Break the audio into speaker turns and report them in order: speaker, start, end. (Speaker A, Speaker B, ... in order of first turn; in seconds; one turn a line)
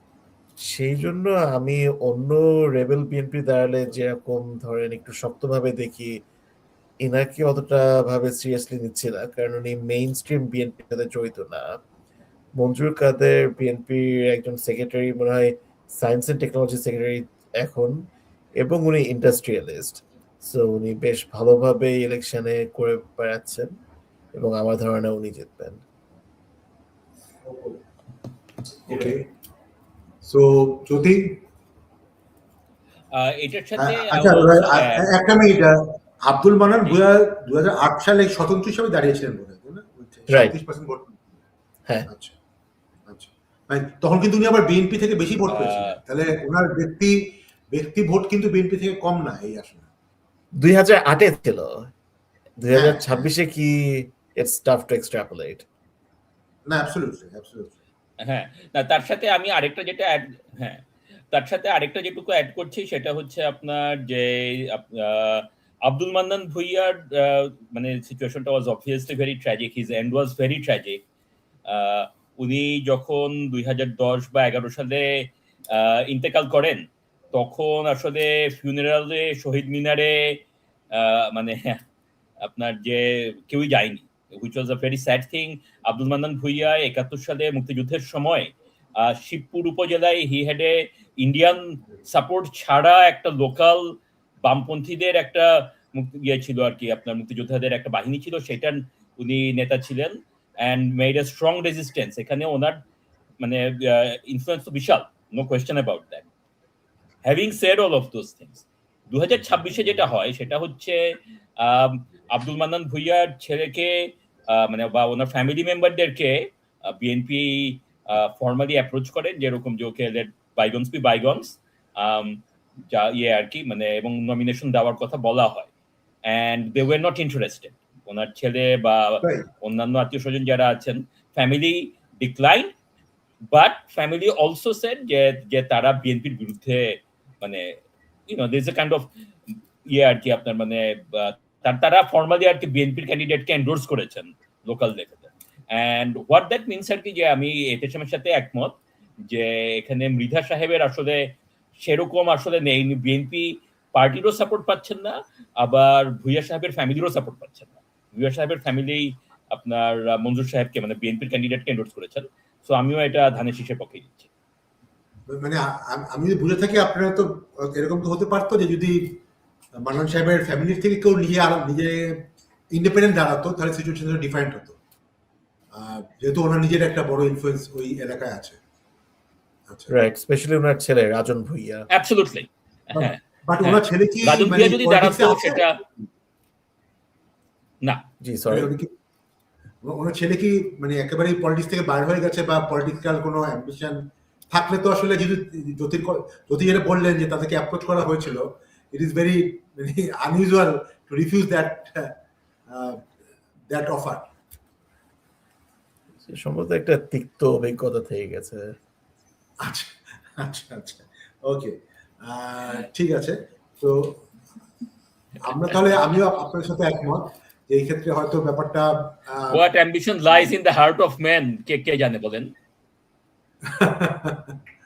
Speaker A: 0.7-6.2
Speaker A: 7.0-11.7
Speaker A: 12.6-18.0
Speaker A: 18.6-23.7
Speaker A: 24.3-25.8
Speaker B: 28.9-29.3
Speaker B: 30.2-31.4
Speaker C: 33.1-35.1
Speaker B: 33.8-41.3
Speaker B: 42.1-42.3
Speaker B: 43.1-49.9
Speaker C: 45.5-46.0
Speaker A: 50.6-51.9
Speaker A: 52.6-55.6
Speaker B: 52.7-53.3
Speaker B: 56.7-57.8
Speaker C: 58.2-71.0
Speaker C: 71.7-80.4
Speaker C: 80.9-81.8
Speaker C: 82.4-102.8
Speaker C: 103.4-106.2
Speaker C: 107.2-125.7
Speaker C: 126.2-132.7
Speaker C: 133.5-139.1
Speaker C: 139.8-148.8
Speaker C: 149.3-164.3
Speaker B: 165.3-169.2
Speaker B: 169.7-174.8
Speaker B: 175.7-178.6
Speaker A: 179.9-181.9
Speaker C: 181.9-185.8
Speaker B: 182.9-185.8
Speaker A: 188.2-188.7
Speaker B: 188.5-188.9
Speaker B: 189.8-202.1
Speaker B: 202.7-203.1
Speaker B: 203.7-204.3
Speaker A: 206.3-208.7
Speaker B: 209.6-214.2
Speaker B: 215.4-219.7
Speaker C: 219.5-222.5
Speaker B: 223.6-224.6